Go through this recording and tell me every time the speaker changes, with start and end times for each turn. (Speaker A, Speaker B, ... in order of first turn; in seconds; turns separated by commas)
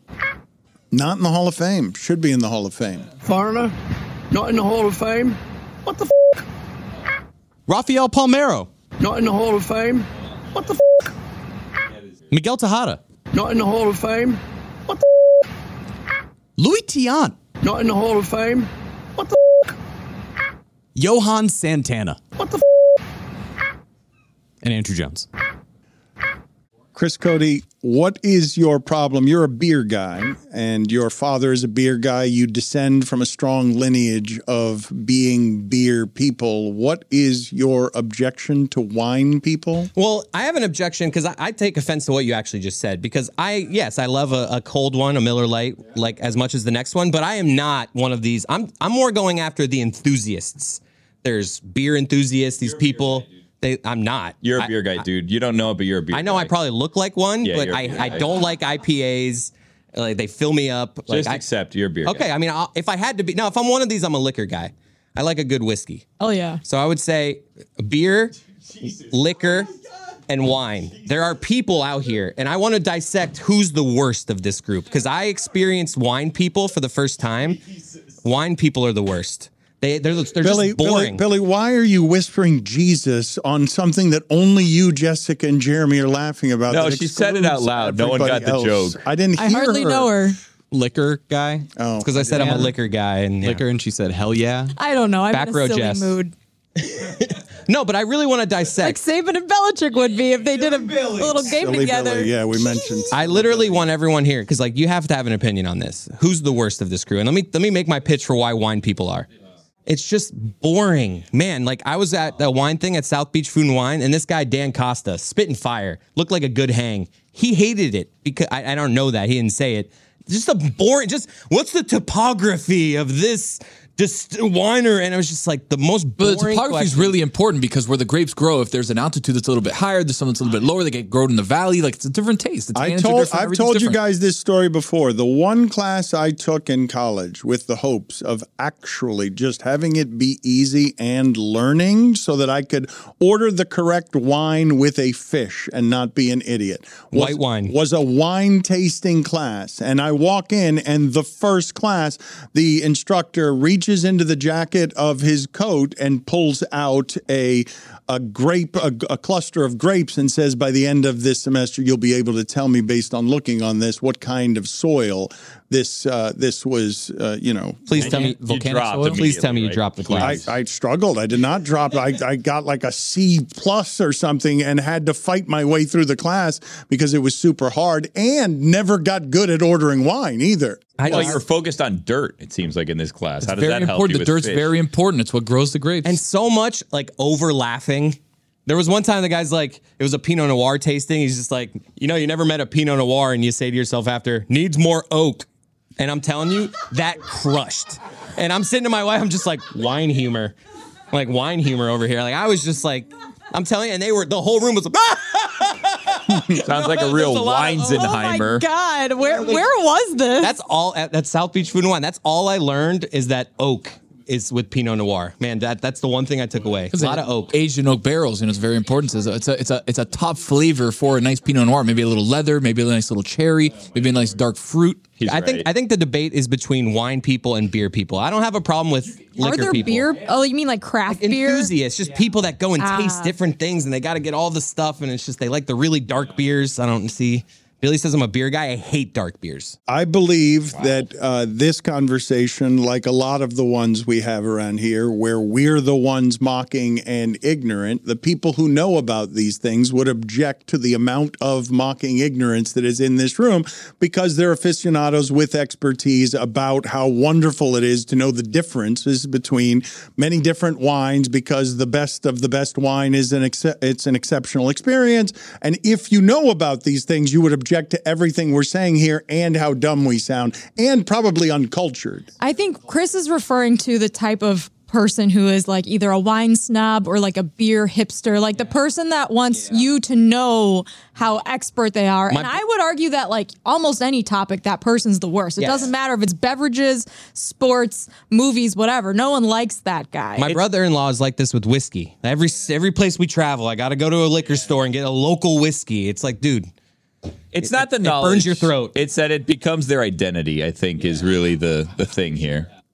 Speaker A: 0.9-3.1, Speaker B: 3.2-3.7, Speaker B: 4.3-6.1, Speaker C: 7.7-8.7, Speaker B: 9.0-10.8, Speaker C: 12.3-13.0, Speaker B: 13.3-15.0, Speaker C: 16.6-17.4, Speaker B: 17.6-19.4, Speaker C: 20.9-22.2, Speaker C: 24.6-25.3, Speaker A: 26.9-39.9, Speaker D: 40.0-55.0, Speaker E: 54.4-56.5, Speaker D: 56.1-61.4, Speaker E: 57.4-58.4, Speaker E: 61.1-62.3, Speaker D: 62.0-66.1, Speaker F: 66.2-66.6, Speaker D: 66.6-69.7, Speaker D: 70.3-77.6, Speaker D: 78.2-81.2, Speaker A: 80.4-90.1, Speaker E: 86.7-89.0, Speaker F: 89.3-90.4, Speaker C: 90.7-91.7, Speaker A: 91.8-92.7, Speaker D: 92.0-93.6, Speaker C: 92.3-92.7, Speaker C: 93.4-94.7, Speaker F: 94.8-96.3, Speaker D: 95.3-96.2, Speaker D: 97.7-99.0, Speaker F: 98.8-103.0, Speaker A: 101.4-103.8, Speaker D: 103.1-109.3, Speaker D: 109.8-127.2, Speaker G: 126.2-134.0, Speaker A: 132.8-168.1, Speaker D: 147.1-147.7, Speaker D: 167.9-170.4, Speaker E: 167.9-170.5, Speaker A: 170.2-181.4, Speaker D: 181.0-181.4, Speaker E: 181.1-184.7, Speaker G: 183.4-186.2, Speaker D: 186.0-195.4, Speaker D: 196.0-200.6, Speaker D: 201.1-205.8, Speaker E: 206.4-208.7, Speaker D: 206.6-207.8, Speaker F: 207.7-210.5, Speaker D: 210.4-217.5, Speaker G: 216.9-225.1, Speaker E: 225.2-225.7, Speaker D: 225.2-230.2, Speaker F: 229.3-231.7, Speaker D: 231.1-239.8, Speaker F: 232.8-233.3, Speaker A: 239.9-272.3, Speaker F: 272.4-290.6, Speaker D: 282.3-282.6, Speaker D: 285.6-285.9, Speaker D: 290.4-296.7, Speaker E: 297.5-302.7, Speaker D: 297.6-298.9